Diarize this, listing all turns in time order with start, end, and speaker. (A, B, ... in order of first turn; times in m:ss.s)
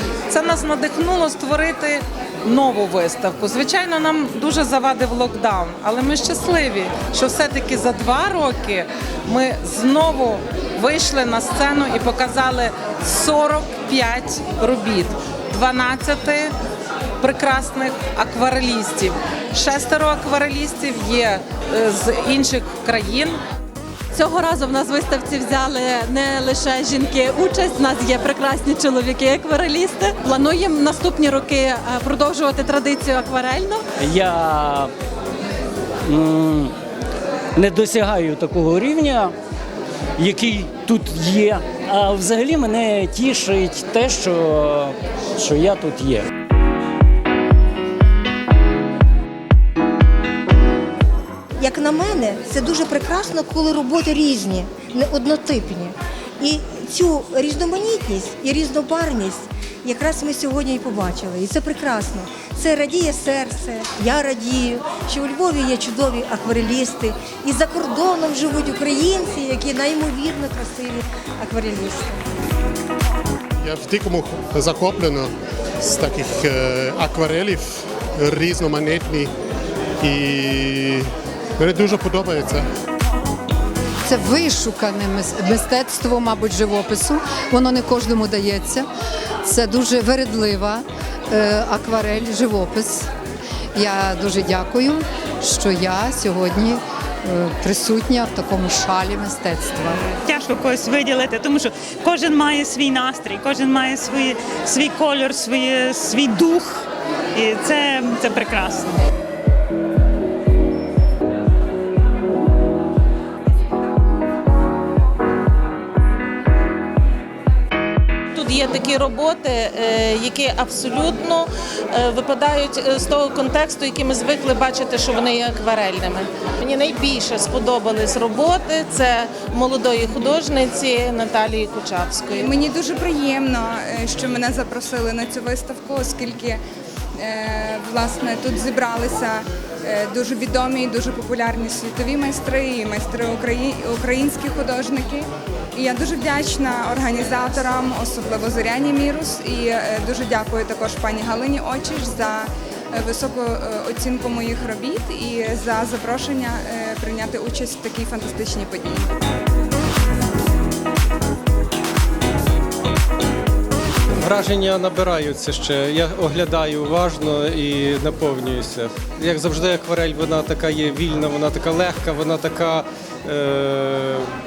0:00.3-0:16.5 A
0:17.2-0:23.4 A
0:24.1-0:33.8 B
0:34.0-0:34.9 C
0:36.0-0:36.8 C
0:37.5-0:39.4 C
0:40.2-0:46.3 C
0:51.6-1:12.2 D
1:13.6-1:19.3 E
1:20.0-1:21.1 E
1:21.6-1:22.6 E
1:24.0-1:28.9 F
1:29.4-1:33.1 F
1:33.7-1:40.0 F
1:40.1-1:46.7 G
1:47.4-1:48.9 G
1:58.3-2:12.5 A
2:12.4-2:16.6 H
2:17.1-2:39.1 H
2:44.2-2:54.2 I